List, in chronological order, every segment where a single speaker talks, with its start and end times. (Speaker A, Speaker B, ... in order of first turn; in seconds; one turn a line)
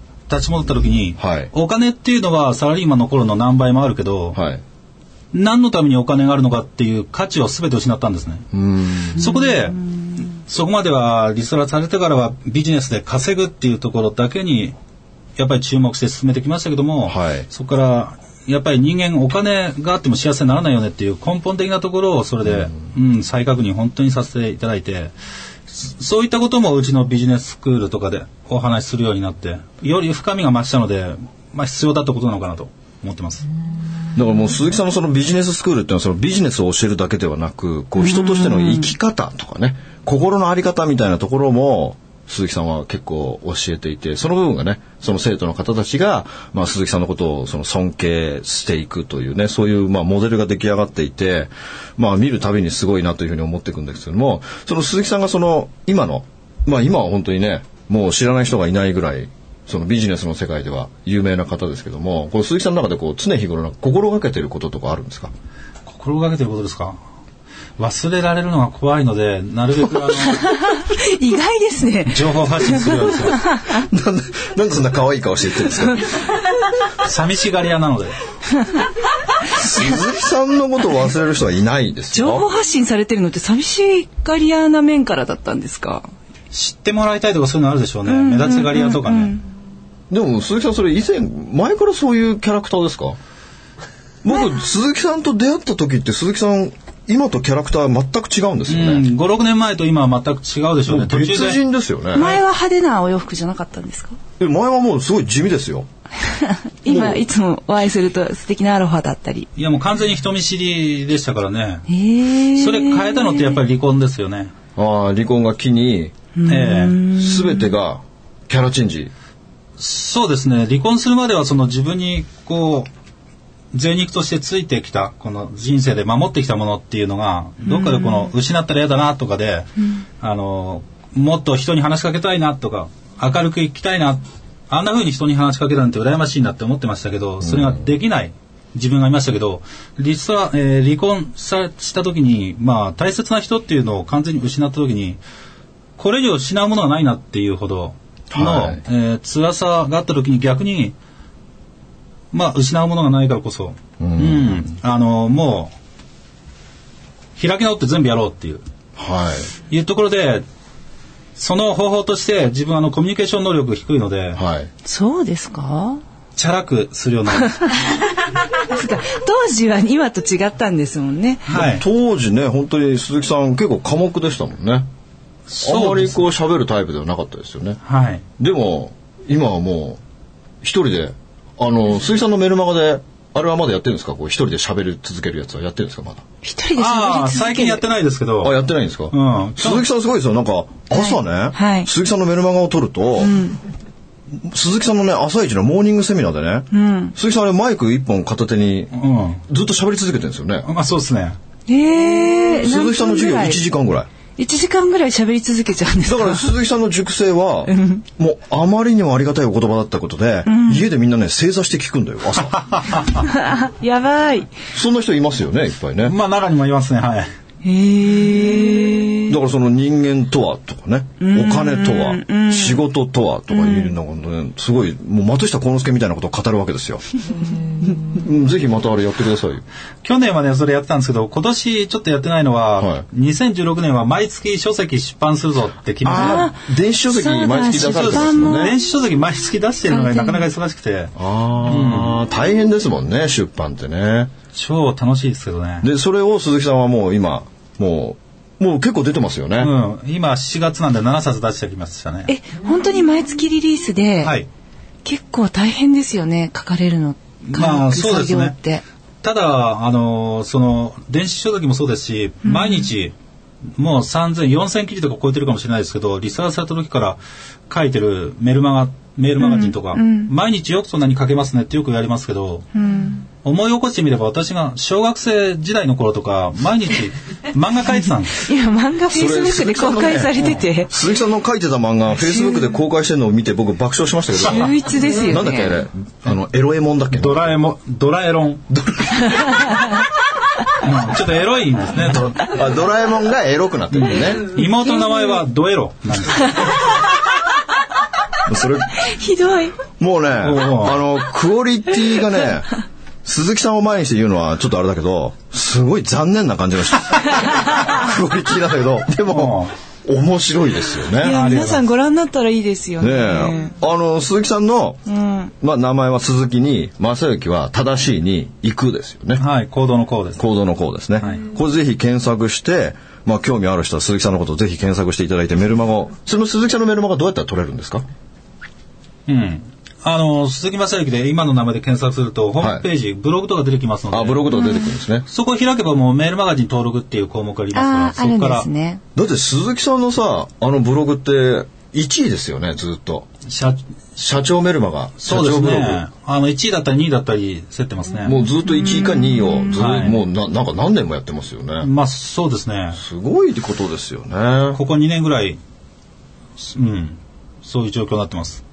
Speaker A: 0.3-4.4
Speaker B: 1.2-1.5
Speaker B: 4.3-4.6
Speaker A: 5.3-8.4
Speaker B: 8.5-9.3
Speaker A: 9.1-14.7
Speaker A: 15.4-25.1
Speaker B: 17.0-17.5
Speaker B: 22.4-22.8
Speaker A: 25.7-33.5
Speaker B: 34.1-65.3
Speaker C: 38.0-38.9
Speaker A: 65.9-67.0
Speaker A: 67.8-70.5
Speaker C: 70.2-73.8
Speaker A: 72.1-73.4
Speaker B: 73.7-76.1
Speaker A: 77.0-78.1
Speaker B: 79.5-82.5
Speaker C: 82.1-86.1
Speaker A: 86.5-89.3
Speaker C: 88.1-89.4
Speaker B: 90.1-93.2
Speaker B: 94.2-99.0
Speaker A: 98.7-101.6
Speaker B: 100.9-102.3
Speaker C: 102.1-104.2
Speaker B: 104.4-105.9
Speaker C: 106.2-109.5
Speaker B: 106.9-107.2
Speaker A: 109.6-111.8
Speaker C: 111.9-113.6
Speaker A: 112.5-114.5
Speaker B: 114.8-116.1
Speaker C: 116.3-117.7
Speaker A: 116.5-117.0
Speaker B: 117.1-119.1
Speaker A: 119.8-122.9
Speaker A: 123.7-145.2
Speaker C: 127.7-128.3
Speaker B: 137.4-137.8
Speaker A: 146.0-150.9
Speaker B: 148.3-148.8
Speaker A: 152.3-155.7
Speaker B: 154.0-154.6
Speaker A: 157.4-158.6
Speaker B: 159.0-159.5
Speaker A: 159.7-160.4
Speaker A: 161.3-164.4
Speaker B: 164.3-164.7
Speaker C: 164.8-166.0
Speaker A: 166.4-167.7
Speaker C: 168.6-171.4
Speaker A: 171.5-171.8
Speaker B: 171.5-174.8
Speaker A: 175.5-176.2
Speaker B: 175.6-177.8
Speaker A: 177.8-178.2
Speaker B: 178.4-180.0
Speaker B: 180.6-186.2
Speaker C: 186.4-187.8
Speaker A: 186.8-188.6
Speaker B: 188.4-193.4
Speaker A: 189.1-189.8
Speaker C: 190.9-191.9
Speaker C: 193.2-193.6
Speaker B: 194.3-198.9
Speaker C: 196.7-197.1
Speaker A: 198.9-199.4
Speaker B: 199.5-200.7
Speaker A: 200.7-201.4
Speaker C: 201.7-203.6
Speaker B: 202.5-204.1
Speaker C: 204.4-206.5
Speaker B: 206.0-213.0
Speaker C: 207.7-208.0
Speaker C: 210.4-210.8
Speaker C: 213.2-214.5
Speaker B: 214.7-216.1
Speaker A: 216.0-217.3
Speaker C: 217.6-219.3
Speaker B: 219.3-227.0
Speaker C: 221.2-222.8
Speaker C: 223.5-223.9
Speaker B: 227.9-229.6
Speaker A: 230.0-236.5
Speaker B: 232.8-233.0
Speaker B: 236.0-238.7
Speaker C: 236.1-236.6
Speaker C: 237.1-238.8
Speaker A: 237.7-241.1
Speaker C: 239.9-240.4
Speaker B: 241.2-244.3
Speaker A: 241.6-242.2
Speaker A: 244.5-245.9
Speaker B: 245.8-249.7
Speaker A: 249.6-252.3
Speaker C: 252.3-254.3
Speaker A: 254.2-254.5
Speaker C: 255.0-258.8
Speaker A: 257.4-258.5
Speaker A: 259.2-263.1
Speaker C: 262.4-262.9
Speaker A: 263.8-267.2
Speaker A: 267.7-272.7
Speaker C: 269.4-270.3
Speaker C: 272.7-273.2
Speaker A: 273.4-278.4
Speaker C: 278.4-280.9
Speaker B: 279.1-287.6
Speaker C: 282.2-282.7
Speaker C: 284.4-285.8
Speaker A: 287.1-288.7
Speaker B: 288.7-289.5
Speaker A: 290.8-292.4
Speaker B: 292.4-294.4
Speaker A: 293.9-296.7
Speaker C: 294.6-295.3
Speaker B: 298.4-299.0
Speaker C: 299.0-299.8
Speaker B: 300.0-302.7
Speaker A: 300.4-301.0
Speaker B: 303.2-311.6
Speaker C: 307.6-307.9
Speaker A: 309.3-309.7
Speaker C: 311.2-313.7
Speaker A: 311.2-311.8
Speaker B: 313.0-315.0
Speaker C: 315.1-315.5
Speaker B: 315.6-319.4
Speaker A: 319.4-320.4
Speaker B: 320.4-328.1
Speaker A: 329.3-334.4
Speaker B: 332.6-332.8
Speaker B: 334.1-335.2
Speaker C: 334.6-334.8
Speaker A: 335.3-338.7
Speaker C: 337.7-339.0
Speaker B: 339.1-343.3
Speaker A: 343.4-343.8
Speaker B: 344.2-346.0
Speaker A: 345.2-348.4
Speaker B: 348.2-351.9
Speaker C: 348.8-349.3
Speaker A: 349.7-350.2
Speaker A: 351.8-353.0
Speaker B: 352.9-354.8
Speaker A: 354.7-355.6
Speaker A: 356.6-358.6